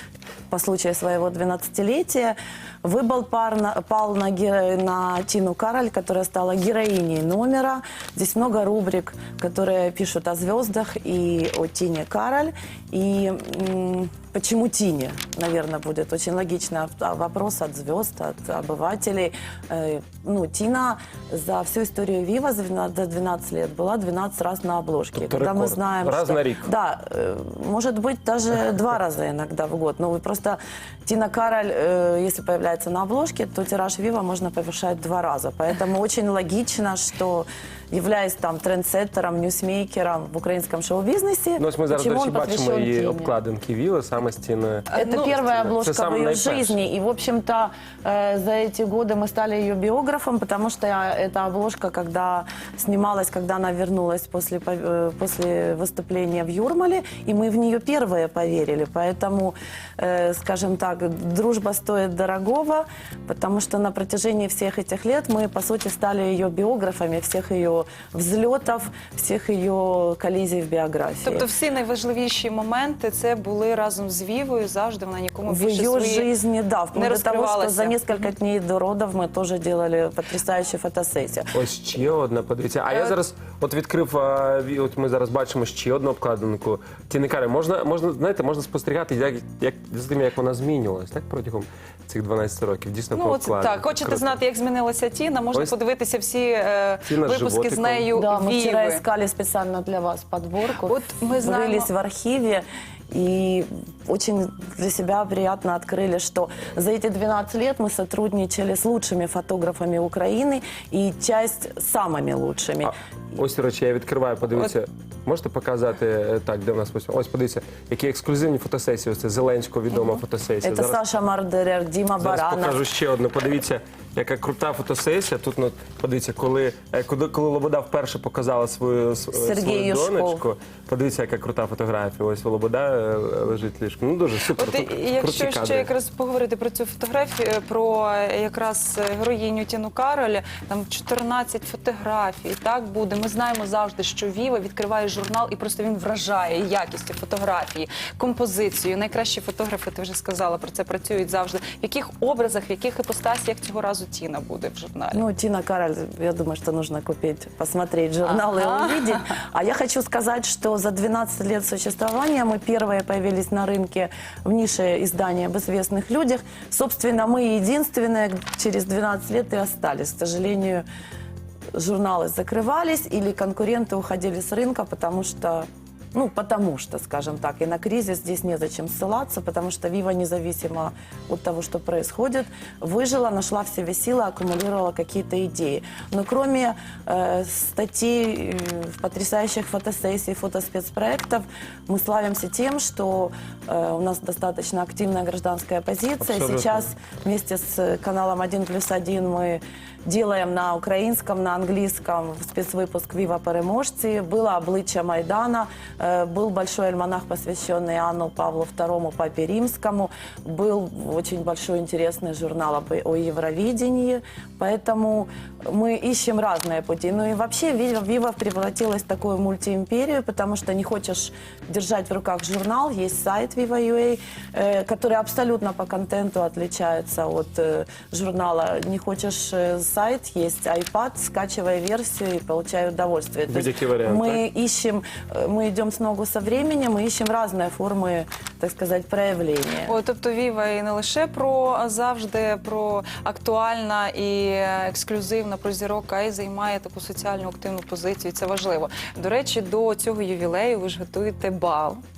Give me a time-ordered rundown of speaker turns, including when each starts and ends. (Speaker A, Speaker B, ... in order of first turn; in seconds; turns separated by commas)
Speaker A: 0.5-43.3, Speaker B: 25.1-26.7, Speaker B: 41.6-46.8, Speaker C: 44.9-45.3, Speaker A: 44.9-71.5, Speaker C: 71.2-76.3, Speaker A: 75.5-81.5, Speaker C: 76.9-78.3, Speaker B: 81.5-94.4, Speaker C: 82.9-83.2, Speaker C: 93.1-99.0, Speaker B: 97.0-98.1, Speaker A: 98.1-112.9, Speaker C: 100.8-101.9, Speaker B: 112.8-121.0, Speaker A: 120.6-122.8, Speaker B: 122.2-135.9, Speaker A: 129.3-130.4, Speaker C: 134.5-155.2, Speaker A: 155.1-170.8, Speaker C: 158.3-159.2, Speaker A: 171.7-239.9, Speaker B: 196.2-196.9, Speaker B: 233.5-234.4, Speaker C: 239.8-252.0